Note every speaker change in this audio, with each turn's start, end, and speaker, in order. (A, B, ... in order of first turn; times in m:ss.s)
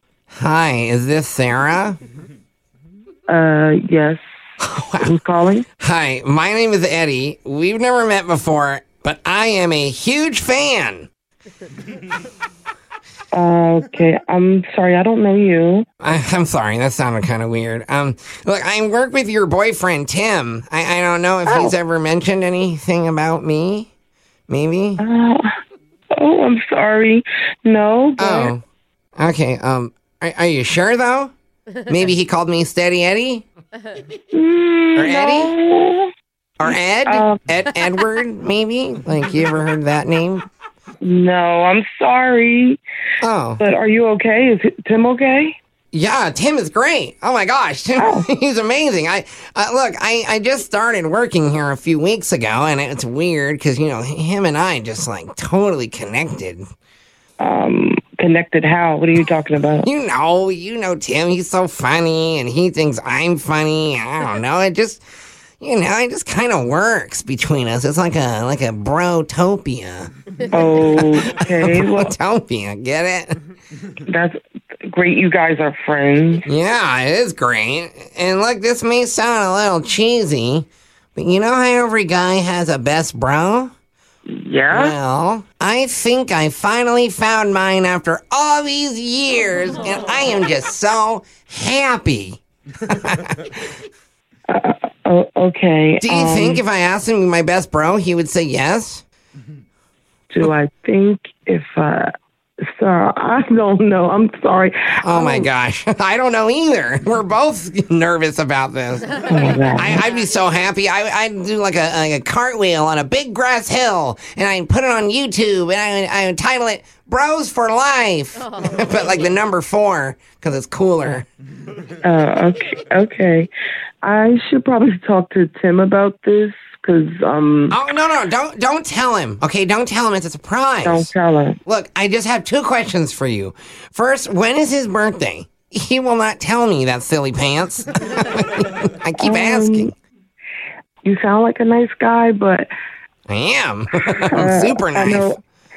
0:00.3-0:02.0 A
0:03.3-0:04.2 B
0:04.6-0:05.1 A
0:05.0-0:05.6 B
0:05.8-0:11.1 A
0:13.3-0:15.9 B
0:16.0-0:23.9 A
0:21.5-0:21.7 B
0:24.5-0:25.0 A
0:25.0-0:25.5 B
0:26.2-0:28.5 B
0:28.2-0:28.6 A
0:29.2-0:31.3 A
0:31.9-0:33.4 A
0:34.3-0:36.1 B
0:35.0-0:35.5 A
0:36.6-0:40.5 A
0:37.1-0:37.4 B
0:41.0-0:42.8 B
0:43.2-0:43.6 A
0:43.6-0:45.6 B
0:45.9-0:56.6 A
0:48.0-0:48.3 B
0:57.4-0:59.9 B
0:59.8-1:05.0 A
1:05.6-1:10.1 A
1:10.5-1:12.1 B
1:11.6-1:13.4 A
1:14.1-1:16.5 B
1:16.5-1:23.7 A
1:24.3-1:25.0 B
1:24.7-1:33.5 A
1:34.5-1:36.6 B
1:36.0-1:39.0 A
1:40.3-1:42.1 B
1:42.7-1:45.5 B
1:45.0-1:49.1 A
1:49.3-1:50.0 B
1:49.8-2:01.3 A
2:02.0-2:03.5 B
2:04.0-2:07.8 B
2:07.7-2:11.1 A
2:10.8-2:11.6 B
2:11.7-2:19.9 A
2:19.2-2:19.9 B
2:21.0-2:22.7 B
2:23.3-2:25.3 A
2:24.3-2:25.4 B